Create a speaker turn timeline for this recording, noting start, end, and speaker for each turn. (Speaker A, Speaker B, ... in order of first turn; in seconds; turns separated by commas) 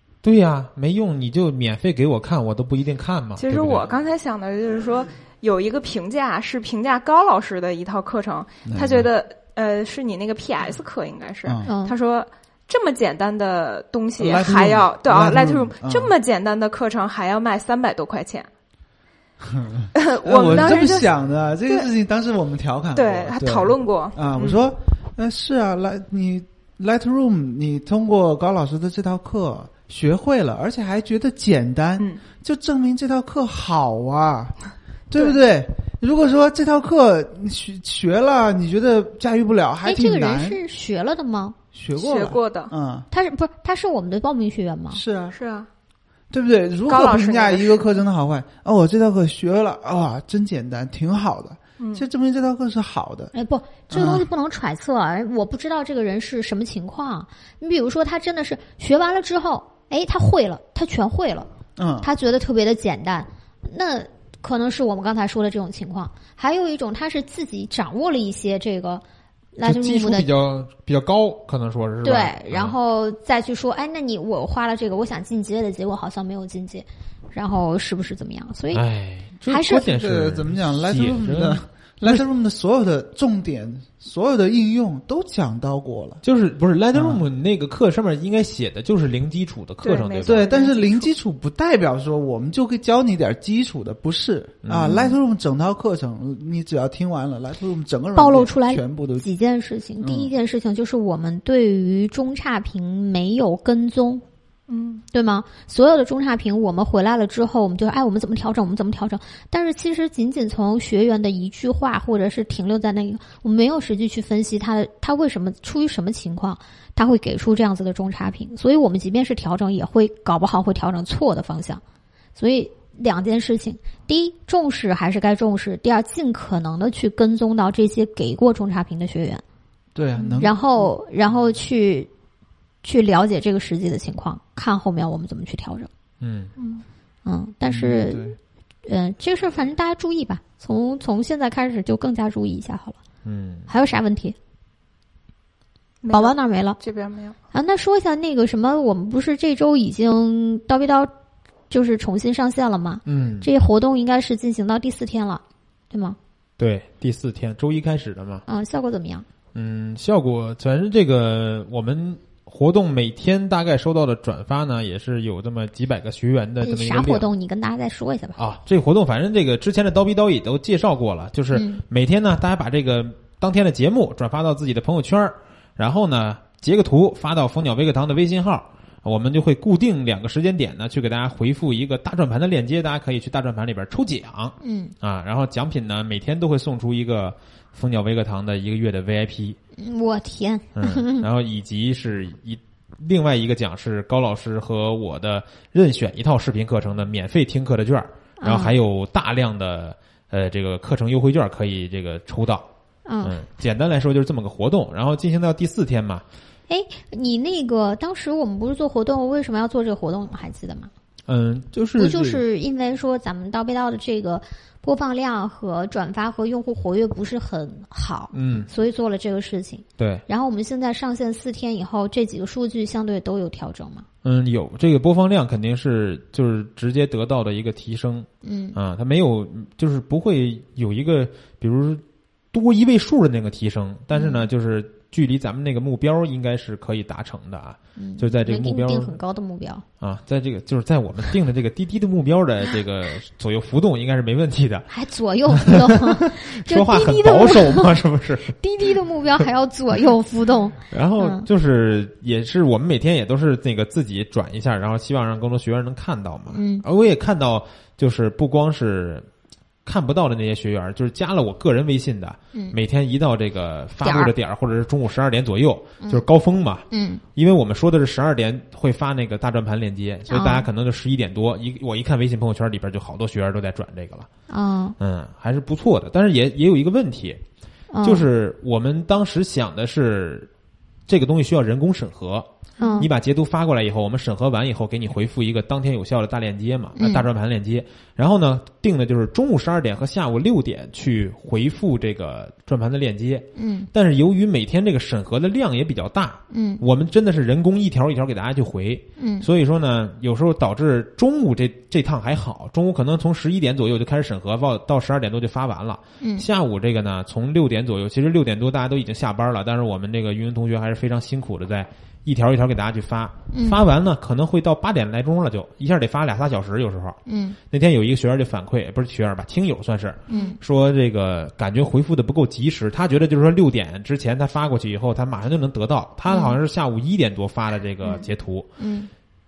Speaker A: 0.2-3.9, Speaker B: 3.4-18.5, Speaker C: 8.7-9.1, Speaker C: 11.4-11.7, Speaker D: 11.7-11.9, Speaker C: 14.2-16.1, Speaker C: 19.4-34.5, Speaker B: 19.9-21.1, Speaker B: 22.9-24.6, Speaker C: 35.1-40.6, Speaker D: 39.8-41.6, Speaker C: 41.7-43.1, Speaker B: 42.0-42.7, Speaker D: 43.1-45.0, Speaker C: 44.9-45.3, Speaker B: 45.3-45.7, Speaker C: 46.3-53.3, Speaker B: 46.9-47.9, Speaker B: 51.8-52.0, Speaker D: 53.3-61.5, Speaker C: 53.9-54.3, Speaker C: 61.8-62.1, Speaker D: 62.0-69.0, Speaker D: 69.5-70.3, Speaker A: 69.6-72.8, Speaker D: 72.0-78.8, Speaker A: 78.7-82.2, Speaker D: 79.5-79.9, Speaker C: 79.7-86.2, Speaker A: 86.2-90.5, Speaker C: 86.9-87.2, Speaker B: 89.8-91.1, Speaker C: 90.2-99.3, Speaker A: 94.6-95.2, Speaker D: 98.2-104.2, Speaker C: 100.0-100.3, Speaker B: 104.7-105.0, Speaker D: 105.1-121.8, Speaker D: 122.3-129.4, Speaker C: 129.9-130.9, Speaker B: 130.1-130.5, Speaker D: 130.4-132.1, Speaker D: 132.8-135.9, Speaker A: 136.2-136.5, Speaker B: 136.6-136.8, Speaker D: 137.2-143.0, Speaker C: 137.7-138.3, Speaker A: 143.2-143.7, Speaker D: 143.7-144.3, Speaker B: 146.0-147.3, Speaker D: 146.1-146.8, Speaker D: 147.5-151.1, Speaker D: 151.7-156.2, Speaker A: 153.1-153.5, Speaker A: 156.6-158.4, Speaker D: 158.4-159.2, Speaker A: 159.5-167.3, Speaker D: 166.6-168.4, Speaker A: 168.4-189.6, Speaker D: 171.5-171.8, Speaker D: 184.6-184.9, Speaker D: 189.8-191.3, Speaker A: 190.8-202.7, Speaker D: 198.4-198.8, Speaker D: 203.1-203.4, Speaker A: 203.2-206.2, Speaker D: 206.7-210.9, Speaker A: 211.3-212.4, Speaker D: 212.0-224.1, Speaker A: 218.3-218.7, Speaker A: 220.0-220.2, Speaker A: 224.2-239.1, Speaker D: 228.4-228.8, Speaker D: 234.1-234.4, Speaker D: 238.0-239.8, Speaker A: 240.0-244.9, Speaker D: 244.9-248.0, Speaker A: 245.6-248.6, Speaker D: 248.5-251.4, Speaker A: 250.9-259.3, Speaker D: 256.5-256.8, Speaker A: 259.8-274.3, Speaker D: 264.0-264.3, Speaker D: 266.9-267.2, Speaker D: 270.3-270.6, Speaker D: 274.5-275.0, Speaker A: 275.0-277.4, Speaker D: 277.9-278.3, Speaker A: 278.0-280.5, Speaker A: 281.1-328.7, Speaker B: 282.8-283.1, Speaker D: 282.8-283.1, Speaker D: 286.9-287.3, Speaker D: 293.6-293.9, Speaker D: 296.5-296.8, Speaker D: 299.2-299.5, Speaker D: 306.2-306.5, Speaker D: 313.5-313.8, Speaker D: 317.2-317.6, Speaker D: 320.3-320.6, Speaker D: 326.3-326.6, Speaker D: 328.8-329.1